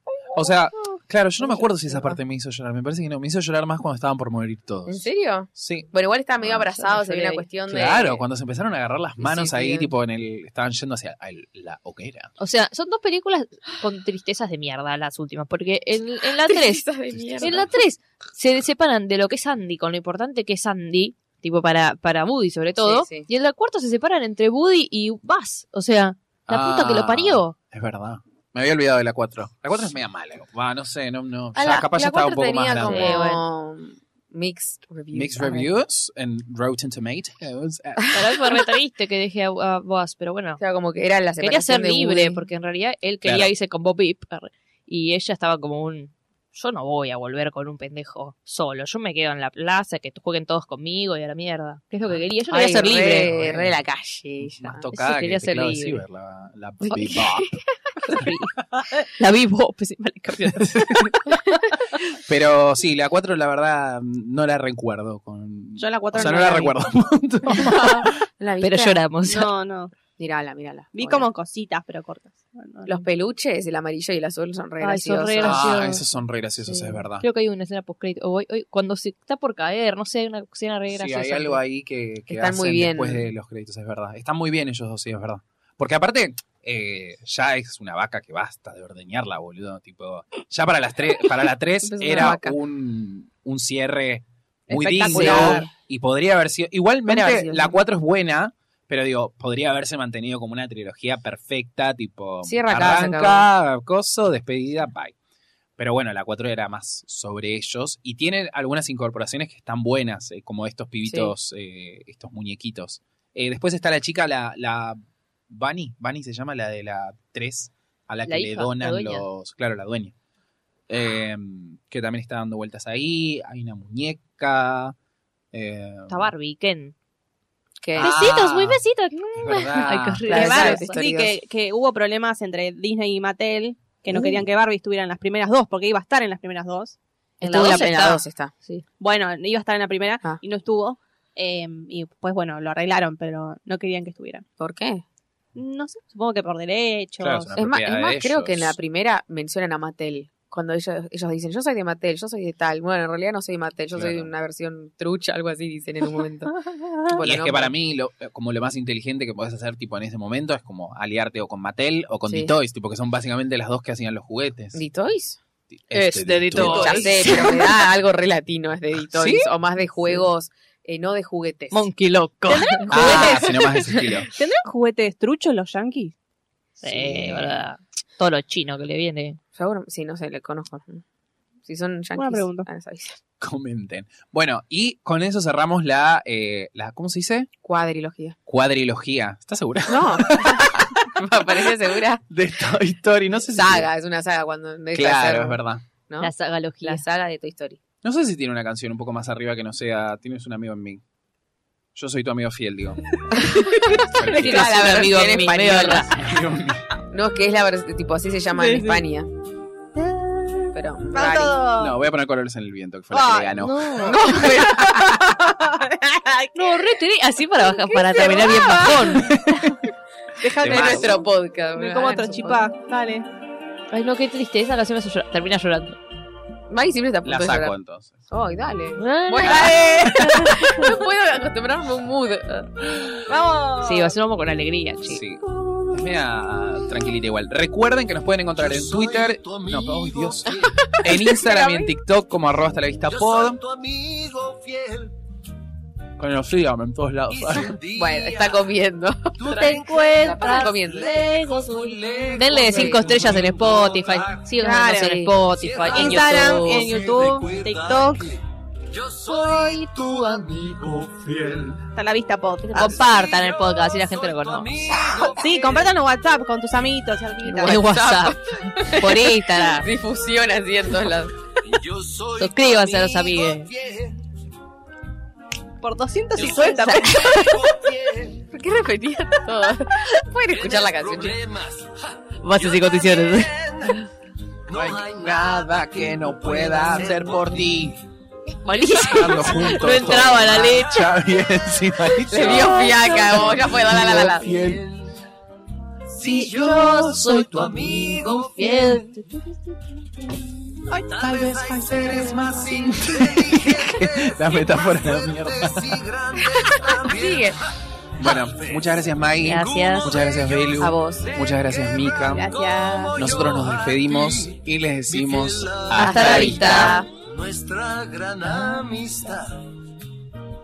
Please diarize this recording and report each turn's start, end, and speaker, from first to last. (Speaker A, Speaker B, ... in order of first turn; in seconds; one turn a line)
Speaker A: 0.3-6.7
Speaker B: 4.9-8.2
Speaker C: 6.7-7.4
Speaker A: 7.7-12.3
Speaker B: 9.2-9.9
Speaker C: 12.4-16.9
Speaker B: 16.4-17.7
Speaker A: 17.1-17.7
Speaker C: 17.4-27.5
Speaker B: 22.8-23.3
Speaker A: 26.5-33.1
Speaker B: 31.6-35.7
Speaker C: 32.8-33.4
Speaker A: 35.1-38.2
Speaker C: 38.1-40.6
Speaker B: 40.6-42.5
Speaker C: 41.4-53.3
Speaker A: 43.2-43.5
Speaker B: 52.5-54.8
Speaker A: 52.9-53.8
Speaker A: 54.4-57.5
Speaker C: 54.9-56.0
Speaker B: 56.8-58.3
Speaker C: 56.9-57.2
Speaker C: 58.0-61.4
Speaker A: 60.4-61.6
Speaker A: 62.2-68.2
Speaker D: 65.8-66.8
Speaker B: 67.5-69.0
Speaker C: 68.6-69.5
Speaker D: 69.2-69.9
Speaker B: 70.2-71.3
Speaker D: 70.9-73.0
Speaker B: 72.8-75.7
Speaker C: 74.8-76.0
Speaker A: 75.4-77.2
Speaker C: 76.7-81.6
Speaker A: 80.9-105.1
Speaker B: 82.3-83.3
Speaker B: 91.8-92.6
Speaker D: 94.7-95.7
Speaker B: 95.1-95.7
Speaker B: 97.0-97.8
Speaker B: 102.4-103.5
Speaker A: 105.8-120.1
Speaker B: 111.0-111.3
Speaker C: 118.2-119.2
Speaker A: 120.9-124.9
Speaker A: 125.5-126.3
Speaker C: 126.1-126.9
Speaker B: 127.8-128.2
Speaker A: 128.0-128.8
Speaker C: 128.0-130.9
Speaker A: 129.3-130.4
Speaker B: 130.2-131.4
Speaker D: 130.3-136.9
Speaker B: 134.1-134.4
Speaker B: 137.4-138.5
Speaker C: 137.4-138.8
Speaker D: 139.0-144.4
Speaker B: 144.6-145.0
Speaker D: 145.6-147.6
Speaker A: 147.2-148.8
Speaker B: 147.6-157.7
Speaker A: 153.9-154.3
Speaker A: 157.2-164.8
Speaker B: 162.3-162.5
Speaker B: 164.7-165.4
Speaker A: 165.7-167.0
Speaker C: 165.9-167.8
Speaker B: 166.6-171.9
Speaker D: 166.7-167.3
Speaker A: 169.1-169.5
Speaker C: 171.7-173.3
Speaker D: 172.5-173.6
Speaker A: 172.9-174.3
Speaker B: 172.9-174.2
Speaker D: 174.3-176.1
Speaker B: 176.8-177.6
Speaker C: 176.8-179.4
Speaker B: 179.5-181.0
Speaker B: 181.6-183.2
Speaker D: 182.1-182.7
Speaker A: 183.4-187.5
Speaker B: 187.6-188.3
Speaker A: 188.5-191.2
Speaker B: 189.9-192.2
Speaker A: 192.3-193.9
Speaker B: 193.5-197.8
Speaker A: 194.9-195.8
Speaker C: 196.2-197.0
Speaker A: 198.0-201.0
Speaker A: 201.9-206.9
Speaker B: 203.3-206.1
Speaker C: 204.3-206.2
Speaker B: 207.1-209.3
Speaker D: 208.5-209.0
Speaker D: 210.0-211.9
Speaker B: 210.7-211.6
Speaker A: 211.8-215.6
Speaker D: 213.1-216.8
Speaker C: 213.7-214.6
Speaker C: 216.5-219.4
Speaker D: 217.7-219.2
Speaker A: 219.1-219.9
Speaker D: 220.4-221.2
Speaker B: 220.5-222.7
Speaker A: 220.6-221.2
Speaker D: 221.8-223.2
Speaker C: 223.9-226.0
Speaker B: 226.7-227.7
Speaker A: 227.2-228.1
Speaker B: 228.3-232.7
Speaker C: 229.0-230.7
Speaker A: 229.4-230.2
Speaker D: 229.7-230.3
Speaker D: 233.3-234.1
Speaker C: 233.8-235.2
Speaker A: 235.1-243.6
Speaker E: 238.6-241.0
Speaker B: 241.1-241.9
Speaker E: 243.1-245.2
Speaker A: 246.2-247.8
Speaker E: 247.3-248.7
Speaker B: 247.9-251.2
Speaker E: 249.4-254.5
Speaker D: 249.5-250.7
Speaker C: 252.3-256.9
Speaker B: 252.7-253.1
Speaker D: 254.6-255.2
Speaker B: 255.0-255.3
Speaker E: 255.5-262.0
Speaker D: 255.9-258.2
Speaker D: 262.0-263.0
Speaker C: 262.7-264.9
Speaker E: 262.8-265.9
Speaker D: 265.4-267.8
Speaker B: 267.4-271.3
Speaker C: 267.6-269.9
Speaker E: 271.6-274.2
Speaker C: 272.4-273.7
Speaker D: 275.8-277.3
Speaker E: 276.4-278.5
Speaker C: 276.4-277.4
Speaker B: 278.5-281.4
Speaker E: 280.5-284.1
Speaker C: 282.4-283.5
Speaker E: 284.7-287.9
Speaker A: 284.7-288.0
Speaker C: 288.6-291.1
Speaker A: 289.1-294.8
Speaker E: 289.2-291.6
Speaker B: 292.3-294.6
Speaker E: 292.4-295.1
Speaker E: 296.1-299.3
Speaker A: 296.2-298.2
Speaker C: 296.2-297.3
Speaker C: 298.5-299.2
Speaker E: 300.9-319.7
Speaker A: 301.2-306.0
Speaker B: 306.5-307.6
Speaker A: 308.2-312.5
Speaker C: 309.4-310.1
Speaker B: 310.8-311.3
Speaker D: 312.4-313.2
Speaker A: 313.1-317.0
Speaker B: 315.9-317.1
Speaker C: 316.0-317.0